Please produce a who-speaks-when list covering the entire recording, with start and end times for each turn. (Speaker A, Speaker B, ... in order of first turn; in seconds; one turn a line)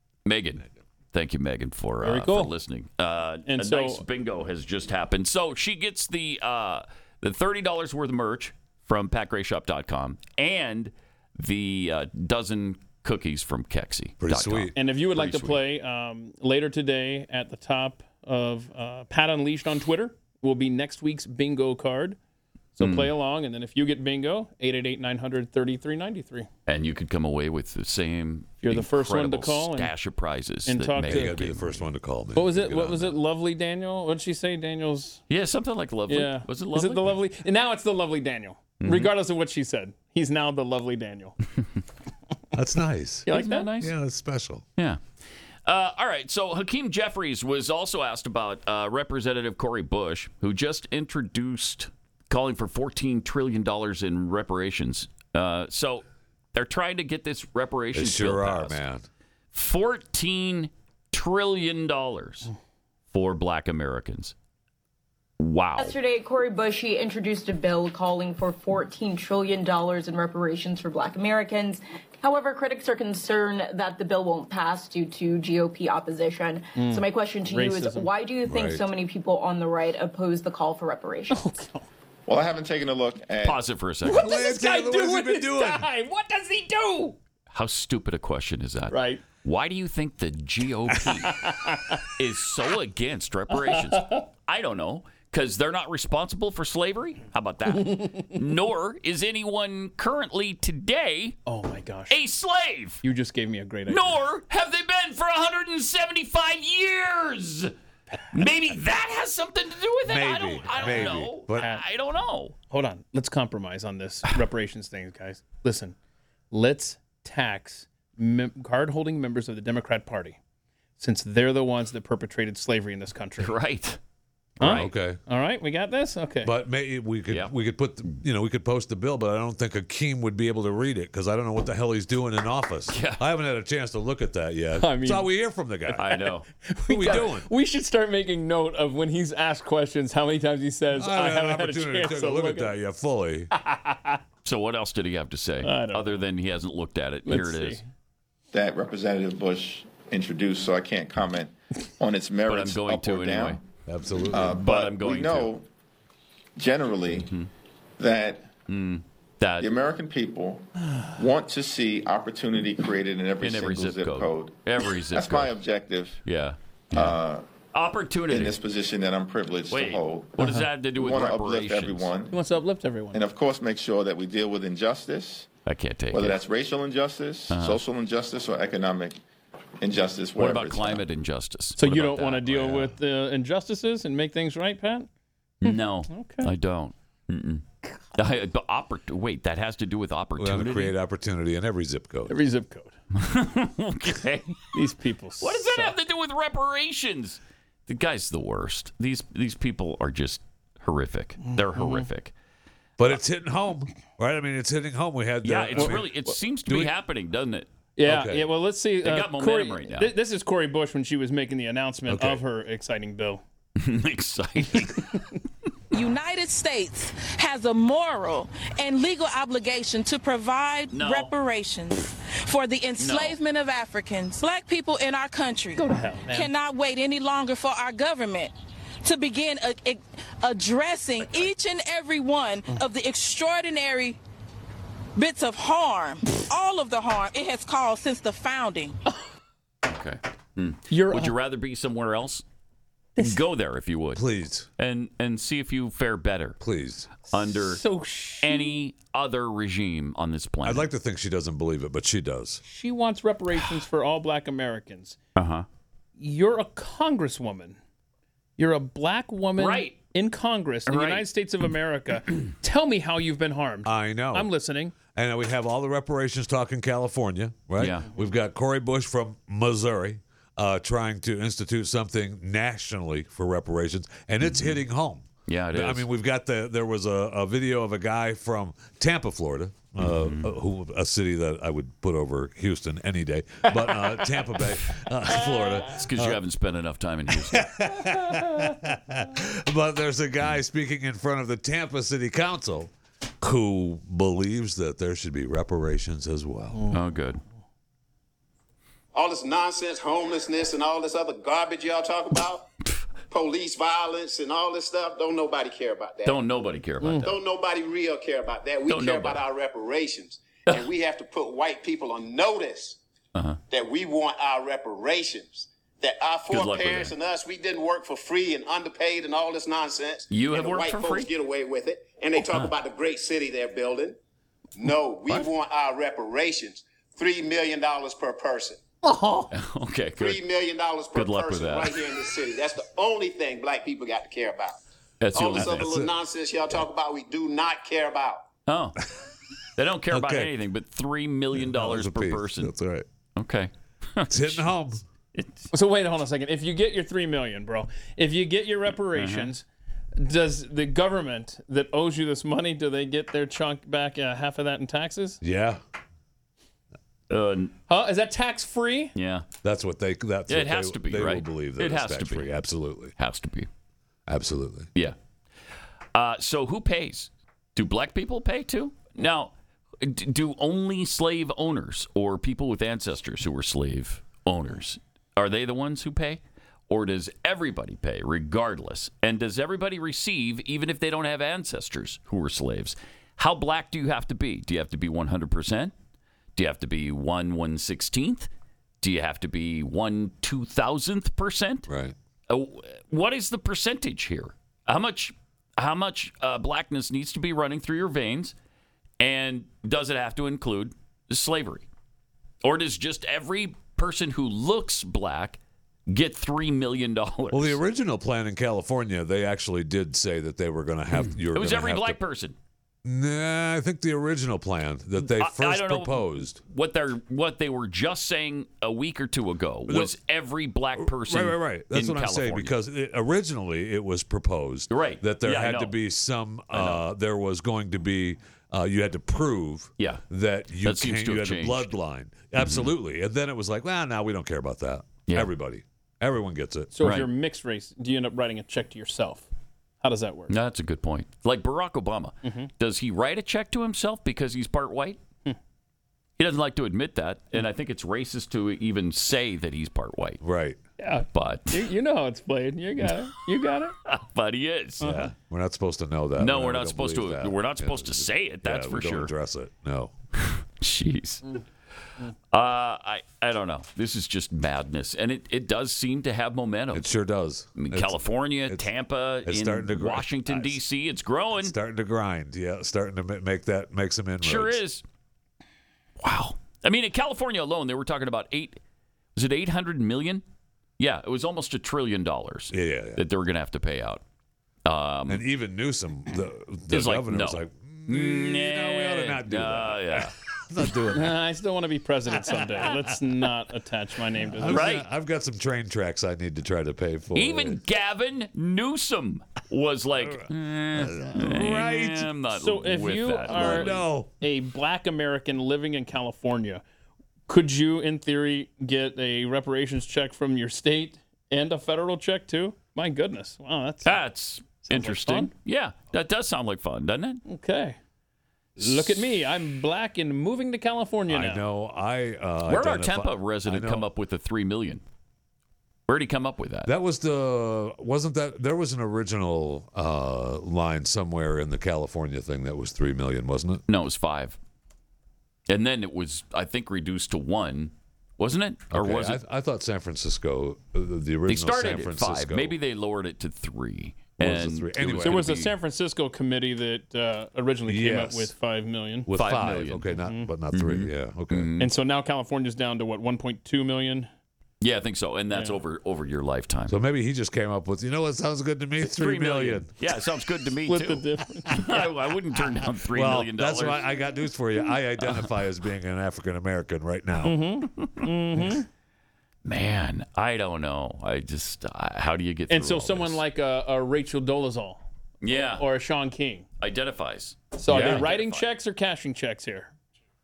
Speaker A: 0.3-15.6
Speaker B: 2.0-2.5
Speaker B: 3.5-4.0
Speaker C: 14.2-14.7
Speaker B: 14.8-22.2
Speaker B: 22.8-26.5
Speaker A: 22.8-23.1
Speaker A: 26.7-31.8
Speaker B: 28.6-29.9
Speaker B: 30.7-31.4
Speaker C: 31.0-33.2
Speaker B: 32.4-35.2
Speaker A: 35.3-37.2
Speaker B: 36.1-41.4
Speaker A: 38.8-39.1
Speaker C: 42.5-44.6
Speaker B: 43.3-43.7
Speaker A: 43.3-43.9
Speaker A: 45.7-58.8
Speaker C: 57.9-59.0
Speaker A: 59.5-62.5
Speaker A: 63.1-64.3
Speaker A: 65.4-66.0
Speaker D: 65.8-81.4
Speaker B: 76.8-78.1
Speaker C: 78.5-78.8
Speaker B: 81.3-81.9
Speaker E: 82.3-83.6
Speaker A: 83.4-84.3
Speaker B: 84.1-87.2
Speaker C: 84.1-85.9
Speaker A: 87.5-91.4
Speaker B: 88.9-89.2
Speaker B: 91.2-92.0
Speaker A: 92.2-101.4
Speaker B: 93.5-94.2
Speaker B: 101.5-102.2
Speaker A: 102.1-103.0
Speaker B: 103.0-104.2
Speaker A: 103.9-107.7
Speaker A: 108.3-112.5
Speaker C: 110.1-111.7
Speaker B: 110.8-111.8
Speaker B: 112.7-116.0
Speaker B: 116.5-120.4
Speaker B: 121.0-123.5
Speaker A: 123.4-124.0
Speaker A: 124.6-124.9
Speaker B: 124.6-126.5
Speaker C: 124.6-125.2
Speaker C: 126.4-136.1
Speaker A: 132.9-133.2
Speaker B: 134.8-135.3
Speaker B: 135.9-136.1
Speaker A: 136.0-136.5
Speaker B: 136.7-142.7
Speaker C: 136.9-137.5
Speaker C: 140.9-143.5
Speaker B: 143.6-144.2
Speaker A: 144.4-147.8
Speaker B: 145.6-146.1
Speaker B: 147.3-147.8
Speaker E: 148.5-153.6
Speaker A: 152.5-153.6
Speaker C: 153.9-154.6
Speaker E: 154.3-155.7
Speaker A: 154.4-155.5
Speaker E: 156.6-157.3
Speaker A: 157.2-157.5
Speaker E: 158.0-158.5
Speaker A: 158.7-159.7
Speaker E: 159.6-164.6
Speaker A: 163.4-165.6
Speaker E: 165.1-166.2
Speaker A: 166.2-167.2
Speaker E: 166.9-167.4
Speaker A: 167.7-168.6
Speaker E: 168.3-172.3
Speaker A: 169.7-172.1
Speaker B: 172.3-173.2
Speaker E: 173.1-175.5
Speaker A: 175.7-176.4
Speaker E: 176.1-179.2
Speaker A: 177.5-177.8
Speaker E: 179.8-181.0
Speaker A: 180.4-182.9
Speaker B: 181.8-185.1
Speaker A: 185.6-187.6
Speaker B: 185.7-186.5
Speaker A: 188.2-190.9
Speaker C: 190.4-192.3
Speaker B: 192.3-193.0
Speaker A: 193.2-194.6
Speaker B: 194.7-195.9
Speaker A: 195.4-202.3
Speaker B: 201.4-202.1
Speaker C: 203.0-206.1
Speaker A: 205.4-207.7
Speaker B: 205.8-206.0
Speaker C: 206.7-206.9
Speaker B: 208.0-213.4
Speaker C: 208.1-208.5
Speaker A: 209.0-210.1
Speaker C: 212.1-212.4
Speaker A: 213.8-215.1
Speaker F: 215.9-234.2
Speaker A: 220.9-221.3
Speaker A: 223.0-223.4
Speaker B: 225.8-226.5
Speaker F: 235.2-239.0
Speaker A: 239.8-242.4
Speaker B: 240.9-241.3
Speaker A: 243.2-246.6
Speaker C: 244.2-244.7
Speaker C: 246.6-247.1
Speaker A: 247.3-247.8
Speaker B: 247.6-248.7
Speaker A: 248.4-250.9
Speaker C: 250.6-252.6
Speaker B: 252.7-255.2
Speaker A: 255.4-255.7
Speaker B: 256.2-257.8
Speaker B: 258.6-264.9
Speaker A: 259.6-260.0
Speaker A: 260.9-261.3
Speaker C: 263.9-264.5
Speaker C: 265.1-286.4
Speaker A: 267.8-268.1
Speaker A: 274.4-274.8
Speaker A: 275.5-276.1
Speaker A: 280.0-280.6
Speaker A: 285.9-287.7
Speaker C: 287.3-296.9
Speaker B: 296.7-297.0
Speaker A: 296.9-297.4
Speaker G: 299.1-302.6
Speaker G: 303.3-306.4
Speaker A: 306.2-307.4
Speaker B: 307.0-307.3
Speaker G: 307.2-313.0
Speaker A: 308.9-309.4
Speaker G: 313.7-324.2
Speaker A: 316.5-317.1
Speaker A: 320.3-321.3
Speaker G: 324.8-328.8
Speaker B: 329.1-329.5
Speaker A: 329.5-330.4
Speaker G: 330.2-334.8
Speaker A: 331.1-332.0
Speaker A: 335.2-335.9
Speaker G: 335.3-338.4
Speaker C: 335.5-336.1
Speaker A: 338.7-339.0
Speaker A: 339.8-342.7
Speaker C: 340.1-340.5
Speaker C: 341.5-343.1
Speaker A: 343.4-344.6
Speaker C: 344.3-345.0
Speaker A: 345.4-345.7
Speaker B: 345.7-349.6
Speaker A: 349.1-349.5
Speaker B: 350.2-355.4
Speaker C: 355.4-355.8
Speaker A: 357.3-357.7
Speaker B: 357.9-359.1
Speaker A: 359.1-359.5
Speaker C: 359.6-363.1
Speaker A: 360.5-362.5
Speaker A: 363.2-363.7
Speaker C: 364.3-364.9
Speaker A: 366.1-385.9
Speaker A: 386.6-388.5
Speaker A: 389.0-391.9
Speaker C: 391.9-392.1
Speaker A: 392.5-398.6
Speaker A: 399.2-401.9
Speaker A: 402.6-407.8
Speaker C: 407.5-412.2
Speaker A: 411.1-412.6
Speaker C: 413.0-416.6
Speaker A: 415.2-422.8
Speaker C: 419.9-420.1
Speaker C: 421.0-436.9
Speaker A: 424.9-425.9
Speaker A: 426.7-427.1
Speaker A: 430.0-430.2
Speaker A: 430.8-431.9
Speaker A: 432.6-432.9
Speaker B: 436.9-439.5
Speaker A: 437.0-437.3
Speaker B: 440.0-440.5
Speaker A: 440.5-445.2
Speaker B: 442.4-442.7
Speaker A: 446.4-450.4
Speaker C: 450.4-450.8
Speaker B: 451.0-453.9
Speaker A: 451.3-451.9
Speaker A: 454.1-455.2
Speaker C: 455.0-460.1
Speaker A: 456.4-459.3
Speaker A: 460.5-461.4
Speaker A: 462.5-467.1
Speaker C: 466.9-468.9
Speaker A: 467.8-471.8
Speaker C: 469.4-470.8
Speaker C: 471.6-474.8
Speaker A: 474.4-475.0
Speaker A: 476.2-478.8
Speaker A: 479.4-480.4
Speaker A: 481.0-484.2
Speaker C: 482.7-483.2
Speaker A: 484.9-485.5
Speaker C: 485.3-491.4
Speaker A: 486.9-490.3
Speaker B: 491.1-494.9
Speaker C: 494.4-497.8
Speaker A: 494.7-495.1
Speaker A: 497.4-504.1
Speaker C: 500.2-502.3
Speaker B: 502.5-506.8
Speaker C: 503.5-504.3
Speaker B: 507.5-514.1
Speaker A: 514.0-517.4
Speaker B: 514.9-515.5
Speaker B: 517.5-518.0
Speaker B: 518.8-521.6
Speaker C: 521.3-524.0
Speaker A: 522.7-525.0
Speaker A: 526.1-526.9
Speaker C: 526.9-533.8
Speaker A: 533.9-534.6
Speaker A: 535.7-539.4
Speaker C: 538.9-542.8
Speaker A: 541.5-545.7
Speaker C: 544.4-545.5
Speaker B: 545.2-549.3
Speaker C: 547.9-548.5
Speaker C: 549.3-551.7
Speaker A: 549.4-550.1
Speaker A: 550.7-551.9
Speaker B: 551.8-554.3
Speaker A: 554.8-557.0
Speaker B: 555.5-555.8
Speaker C: 556.9-559.9
Speaker A: 559.0-564.1
Speaker B: 560.9-561.9
Speaker C: 563.1-567.6
Speaker A: 565.2-565.5
Speaker B: 567.4-568.9
Speaker A: 569.6-573.4
Speaker B: 572.7-575.0
Speaker A: 575.4-575.9
Speaker B: 575.8-576.7
Speaker A: 576.8-578.7
Speaker B: 577.8-579.9
Speaker C: 577.9-578.3